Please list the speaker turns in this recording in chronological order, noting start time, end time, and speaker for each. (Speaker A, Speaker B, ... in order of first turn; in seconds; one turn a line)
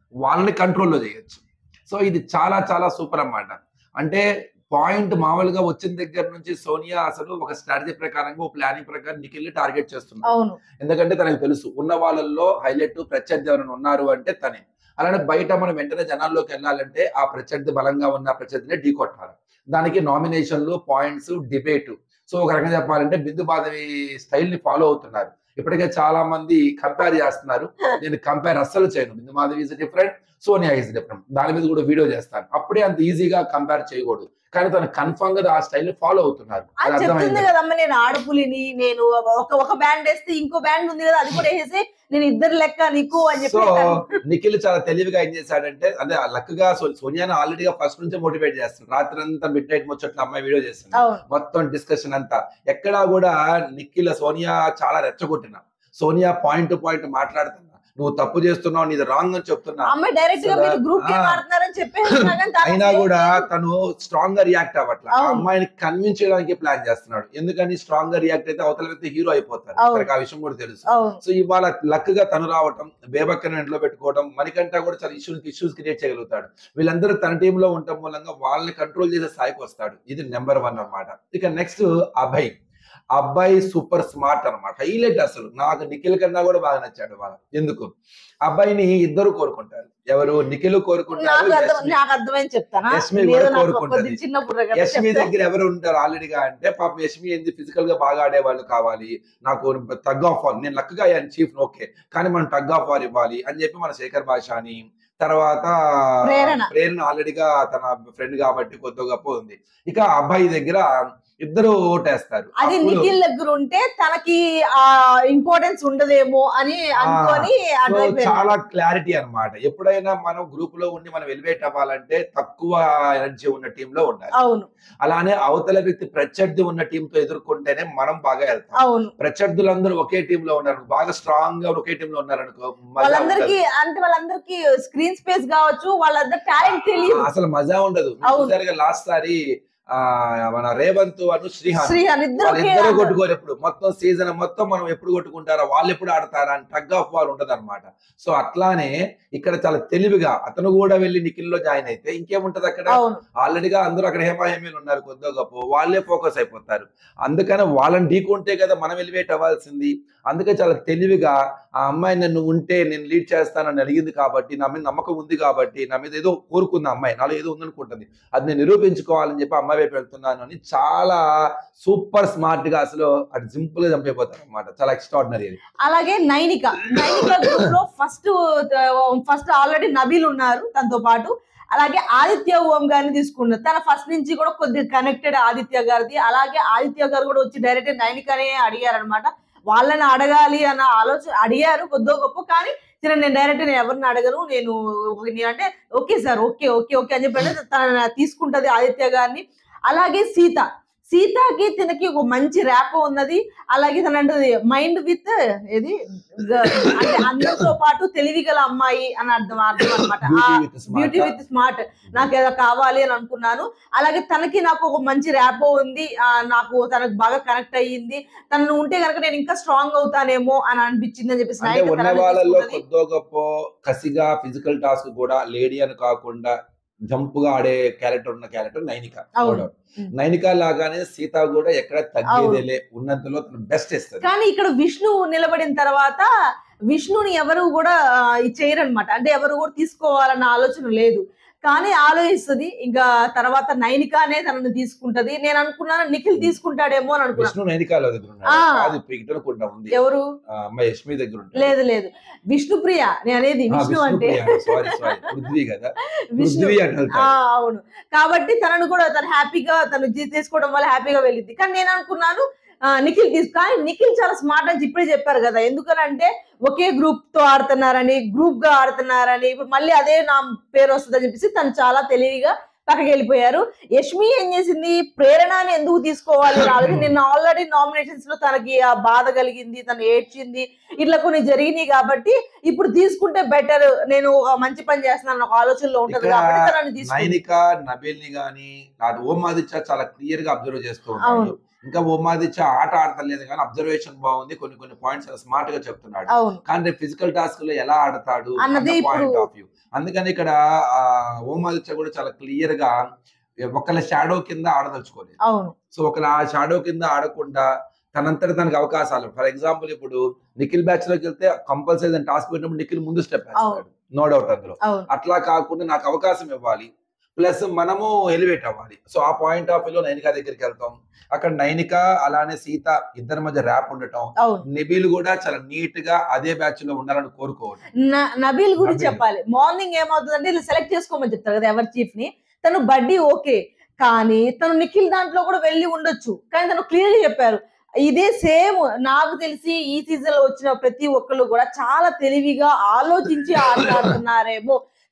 Speaker A: 0.2-10.2
Speaker B: 10.3-10.6
Speaker A: 10.8-37.5
Speaker B: 36.8-44.1
Speaker A: 43.3-61.4
Speaker B: 51.0-51.2
Speaker B: 59.9-63.5
Speaker A: 62.2-82.5
Speaker B: 65.1-65.4
Speaker B: 69.8-70.1
Speaker B: 70.9-71.2
Speaker A: 83.2-87.9
Speaker A: 88.5-92.0
Speaker B: 91.2-95.3
Speaker A: 92.9-94.2
Speaker A: 94.8-110.9
Speaker B: 106.2-106.7
Speaker A: 111.4-113.1
Speaker B: 112.6-118.5
Speaker A: 117.0-124.3
Speaker B: 124.4-124.7
Speaker A: 125.0-133.6
Speaker B: 128.8-129.1
Speaker B: 133.0-137.3
Speaker A: 136.7-139.4
Speaker B: 138.3-138.5
Speaker A: 139.9-171.2
Speaker B: 141.8-143.1
Speaker B: 152.9-153.2
Speaker A: 171.8-175.6
Speaker B: 175.8-222.8
Speaker A: 206.7-207.7
Speaker A: 210.0-211.3
Speaker A: 221.6-226.5
Speaker A: 227.1-234.3
Speaker B: 229.4-230.1
Speaker B: 232.3-232.6
Speaker B: 234.2-236.3
Speaker B: 236.9-247.5
Speaker A: 247.4-249.9
Speaker B: 248.5-248.9
Speaker B: 249.9-250.2
Speaker A: 250.6-251.7
Speaker B: 251.6-255.3
Speaker A: 253.7-257.3
Speaker B: 256.4-287.4
Speaker A: 276.6-277.1
Speaker A: 286.1-302.9
Speaker B: 291.2-291.5
Speaker B: 296.3-296.6
Speaker B: 298.6-299.5
Speaker A: 303.7-305.4
Speaker B: 305.4-305.7
Speaker A: 305.9-327.8
Speaker B: 313.6-313.8
Speaker B: 314.8-315.1
Speaker B: 324.4-324.6
Speaker B: 328.1-344.8
Speaker A: 328.8-329.2